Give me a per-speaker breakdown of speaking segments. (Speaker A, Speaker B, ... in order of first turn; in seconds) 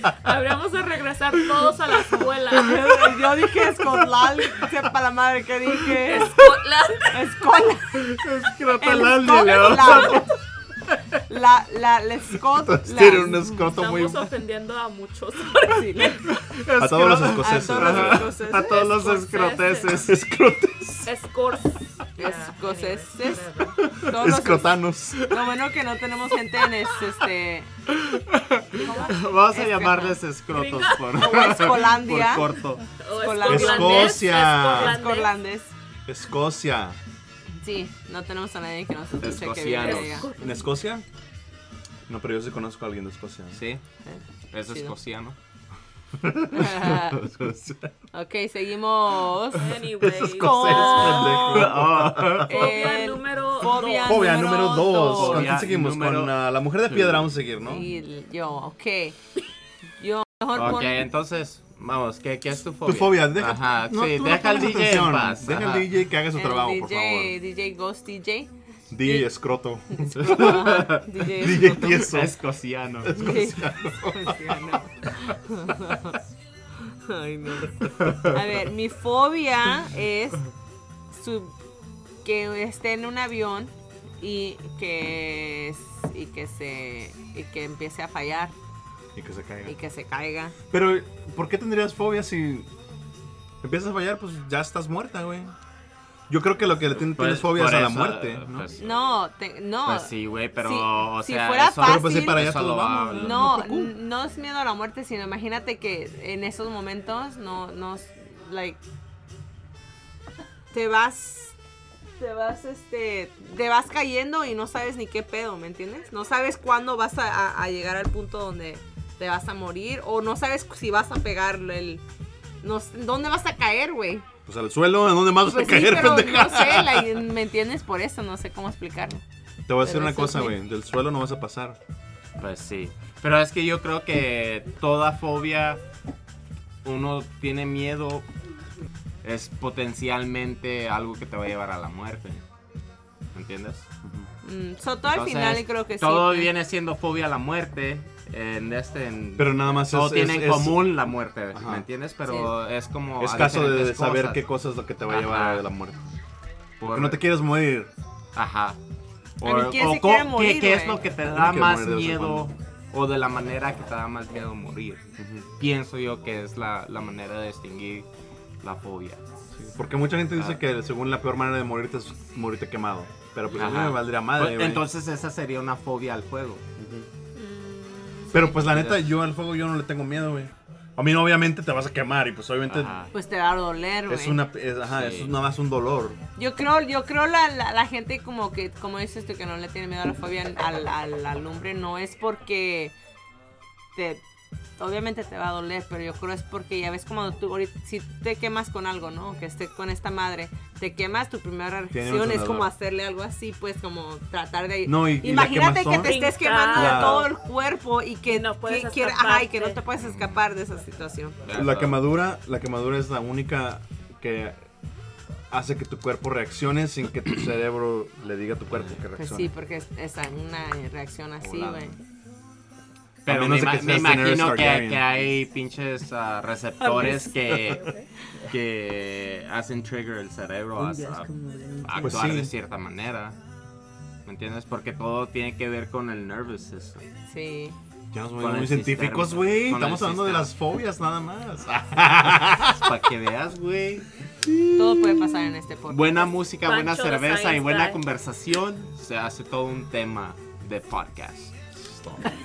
Speaker A: 0.2-3.2, 6.0-7.2, 13.6-16.2, 17.8-20.1, 21.1-23.8, 28.8-29.2, 30.5-31.5, 33.0-35.4, 39.8-40.7, 49.5-51.3, 52.4-54.4, 177.3-178.5, 205.9-207.3, 208.3-209.8, 227.7-228.1, 246.6-248.0
Speaker B: 2.5-6.5, 7.1-8.0, 8.8-10.3, 11.3-13.5, 15.7-16.3, 17.4-18.5, 22.2-27.7, 28.8-30.2, 31.1-32.5, 33.1-35.7, 37.6-40.3, 44.0-45.0, 46.5-47.2, 48.1-49.7, 50.3-51.7, 52.5-55.6, 57.6-59.2, 60.0-61.1, 66.3-68.5, 69.0-69.3, 70.0-72.0, 73.1-76.2, 77.0-80.5, 81.1-81.5, 82.2-88.5, 89.7-90.5, 98.8-102.5, 103.1-108.8, 110.7-111.5, 112.2-122.0, 122.6-124.2, 125.5-129.2, 129.8-130.6, 144.4-146.5, 152.3-152.5, 159.4-161.0, 183.1-184.4, 186.4-192.9, 193.9-194.2, 194.8-211.4, 219.2-222.0, 226.8-227.3, 230.9-232.1, 237.3-237.8, 244.8-246.3
Speaker C: 8.0-10.3, 16.3-20.1, 27.9-32.9, 39.2-40.3, 43.5-43.8, 44.5-45.4, 47.2-47.5, 51.4-52.8, 55.1-57.3, 60.5-65.9, 70.5-71.0, 71.5-73.1, 97.0-99.0, 99.8-103.5, 132.4-135.8, 136.8-138.3, 139.2-142.4, 143.3-143.9, 145.1-154.4, 155.1-155.7, 156.8-157.2, 158.4-158.8, 159.4-165.0, 165.6-168.1, 168.6-169.2, 173.5-176.6, 178.6-179.1, 182.7-183.1, 184.9-185.4, 210.0-210.4, 211.5-212.1, 223.3-227.9, 228.5-231.3, 231.8-233.4, 234.3-237.1, 238.4-240.5, 242.8-244.1, 245.9-251.5
Speaker D: 12.6-14.3, 16.8-18.3, 20.1-21.1, 24.1-25.2, 33.4-35.0, 36.1-37.0, 40.4-41.0, 42.1-43.6, 46.2-47.9, 50.0-52.5, 53.6-57.9, 62.9-67.4, 68.9-72.4, 73.0-74.5, 89.2-89.8, 90.7-92.7, 93.6-95.5, 96.3-98.7, 101.8-103.9, 124.5-127.1, 129.7-131.8, 149.4-150.9, 151.5-151.9, 153.2-156.1, 156.9-157.9, 161.3-162.5, 165.2-165.4, 169.7-174.8, 176.8-177.1, 178.3-182.9, 184.1-186.2, 201.9-202.7, 204.8-207.3, 211.5-214.6, 215.5-219.5, 221.4-221.9, 223.3-225.3, 232.0-232.5, 238.1-242.9, 251.8-252.2